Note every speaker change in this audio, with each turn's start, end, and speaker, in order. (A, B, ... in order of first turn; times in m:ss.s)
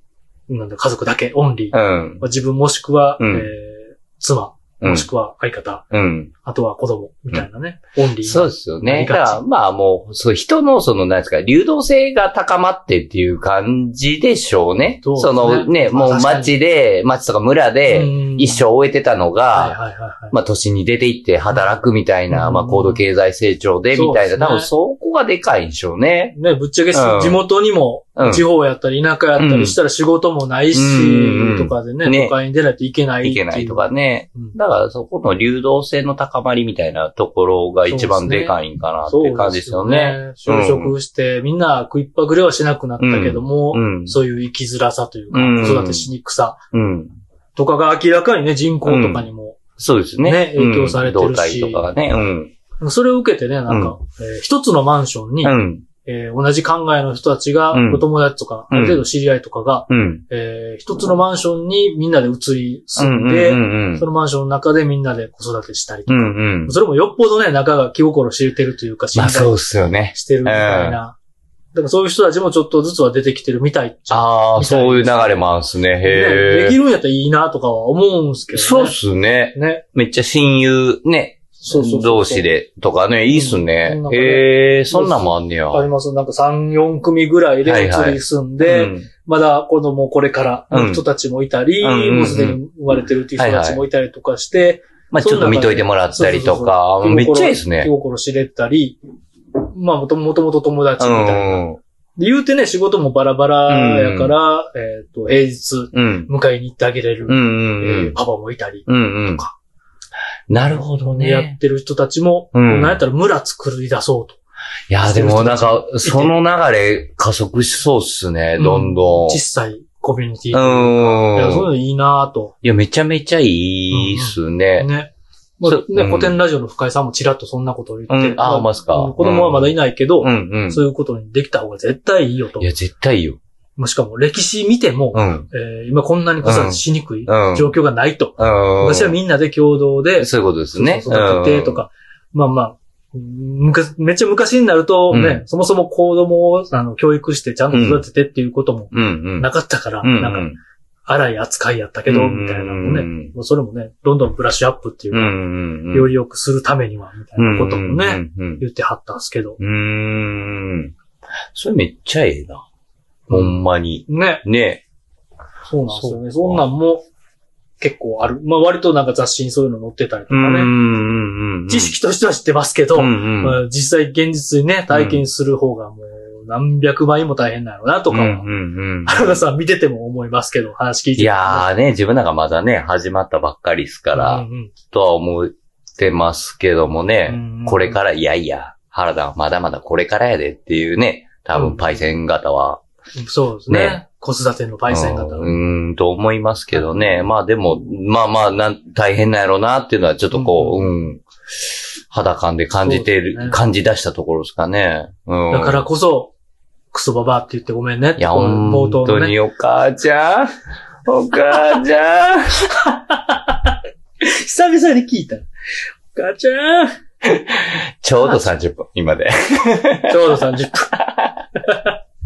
0:00.5-0:05.8 A
0:01.7-0:02.2 B
0:03.2-0:03.5 B
0:04.8-0:05.1 B
0:05.9-0:06.3 B
0:06.4-0:09.4 A
0:08.2-0:19.8 B
0:15.0-0:16.5 A
0:17.9-0:18.6 A
0:19.5-0:20.3 A
0:20.3-0:26.4 B
0:22.3-0:23.0 A
0:23.9-0:24.7 A
0:26.3-0:34.6 A
0:26.9-0:27.4 B
0:28.2-0:28.4 B
0:29.4-0:29.8 B
0:30.7-0:32.3 B
0:33.2-0:40.9 B
0:37.9-0:38.6 A
0:39.1-0:46.6 A
0:43.0-0:44.2 B
0:45.3-0:46.1 B
0:46.7-0:47.1 B
0:47.6-0:49.6 A
0:48.8-0:49.2 B
0:49.8-0:52.5 B
0:50.2-0:51.8 A
0:52.8-1:09.6 A
0:53.7-0:53.9 B
0:55.4-0:55.8 B
0:57.7-0:58.0 B
0:58.7-0:59.0 B
0:59.9-1:00.2 B
1:03.0-1:04.0 B
1:06.1-1:06.8 B
1:09.1-1:11.0 B
1:10.1-1:11.2 A
1:11.7-1:15.4 A
1:14.1-1:16.8 B
1:16.0-1:18.9 A
1:18.5-1:25.8 B
1:19.5-1:19.8 A
1:21.6-1:22.5 A
1:23.3-1:39.0 A
1:27.6-1:29.1 B
1:30.7-1:31.0 B
1:31.8-1:32.6 B
1:33.4-1:33.8 B
1:35.1-1:37.9 B
1:39.6-1:41.6 A
1:41.0-1:41.8 B
1:42.2-1:49.5 A
1:43.7-1:44.4 B
1:45.9-1:46.3 B
1:47.3-1:48.1 B
1:48.9-1:49.4 B
1:50.5-1:51.6 B
1:51.0-1:54.4 A
1:52.5-1:53.0 B
1:54.9-1:59.4 B
1:55.0-1:56.3 A
1:58.6-2:02.5 A
2:00.5-2:01.7 B
2:02.6-2:04.9 B
2:03.9-2:12.7 A
2:05.6-2:06.4 B
2:08.1-2:10.8 B
2:12.6-2:13.4 B
2:13.8-2:30.5 A
2:15.1-2:15.5 B
2:16.4-2:17.7 B
2:18.4-2:19.2 B
2:20.2-2:21.8 B
2:25.1-2:25.4 B
2:27.7-2:28.0 B
2:28.9-2:29.5 B
2:30.0-2:30.6 B
2:31.1-2:39.6 A
2:32.0-2:33.3 B
2:35.1-2:36.1 B
2:37.4-2:38.6 B
2:39.6-2:40.9 B
2:41.5-2:42.6 B
2:43.3-2:44.4 A
2:43.3-2:44.8 B
2:45.7-2:47.0 A
2:45.9-2:46.6 B
2:47.8-2:50.7 A
2:50.3-2:51.9 B
2:51.7-2:58.4 A
2:52.9-2:53.6 B
2:54.9-2:55.2 B
2:58.1-2:59.4 B
2:59.0-3:01.7 A
3:01.2-3:12.8 B
3:04.1-3:04.7 A
3:07.3-3:08.0 A
3:11.5-3:11.9 A
3:13.2-3:15.5 A
3:13.7-3:14.0 B
3:14.9-3:25.8 B
3:20.3-3:20.9 A
3:22.8-3:23.6 A
3:25.5-3:26.3 A
3:26.9-3:29.3 A
3:28.2-3:30.5 B
3:31.0-3:32.9 B
3:32.8-3:35.5 A
3:36.1-3:37.0 A
3:37.2-3:41.4 B
3:40.1-3:41.0 A
3:41.6-3:41.9 A